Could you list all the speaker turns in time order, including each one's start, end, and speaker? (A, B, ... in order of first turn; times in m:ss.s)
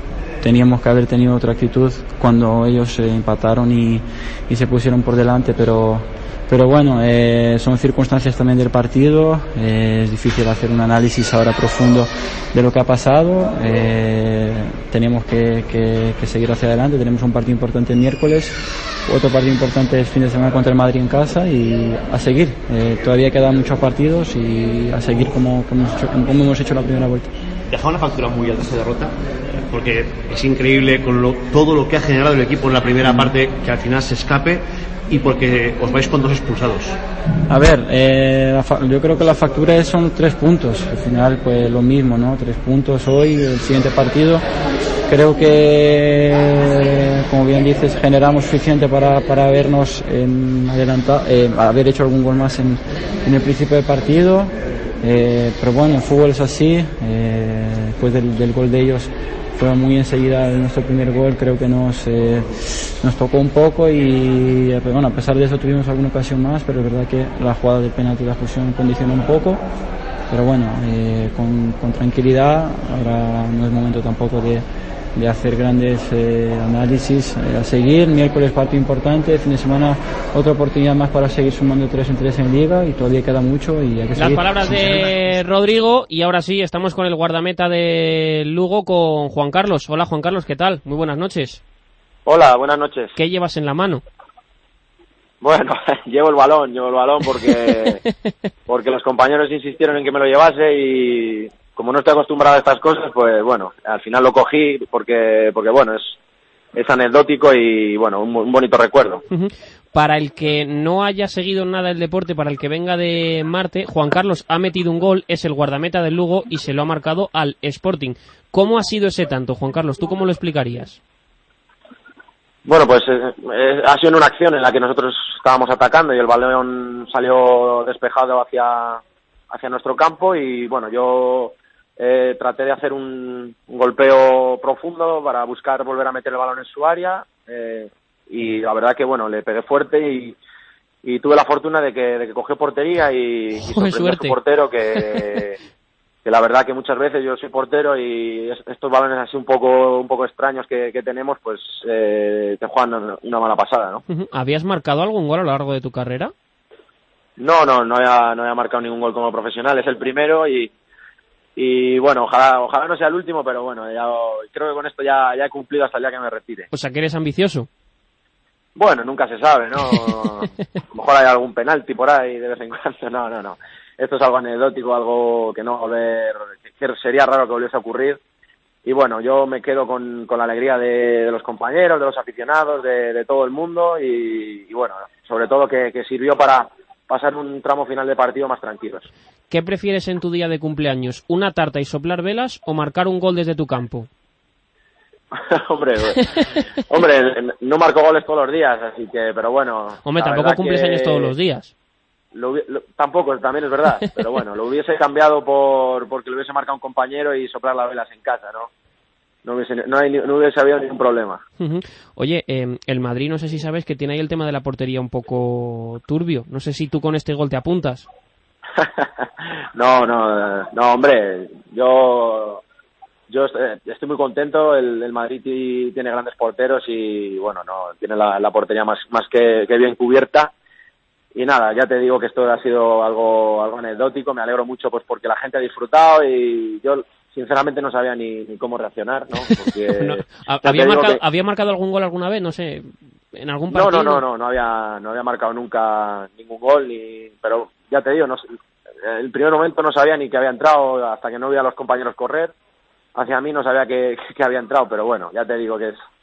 0:00.4-0:27.3 A
0:27.7-0:37.0 B
0:33.0-0:33.3 A
0:37.5-0:44.4 A
0:45.1-1:09.6 A
1:10.3-1:25.0 A
1:24.2-1:31.6 C
1:32.2-1:33.1 D
1:33.2-1:34.0 C
1:35.4-1:38.0 D
1:38.7-1:46.2 D
1:46.7-1:49.2 D
1:49.3-2:01.0 C
2:02.6-2:20.4 D
2:21.0-2:25.6 D
2:23.7-2:24.4 C
2:26.2-2:34.0 D
2:34.1-2:36.3 C
2:37.4-2:40.7 D
2:41.6-2:46.7 D
2:46.7-2:47.7 C
2:48.8-2:58.2 D
2:58.8-3:09.1 D
3:09.5-3:14.1 C
3:15.3-3:21.3 D
3:20.0-3:21.7 C
3:22.3-3:28.7 D
3:29.4-3:31.4 D
3:31.6-3:38.1 C
3:38.8-3:42.6 D
3:43.3-3:50.5 D
3:51.3-4:01.2 D
4:00.0-4:04.2 C
4:03.7-4:08.4 D
4:09.0-4:12.5 D
4:13.1-4:16.0 D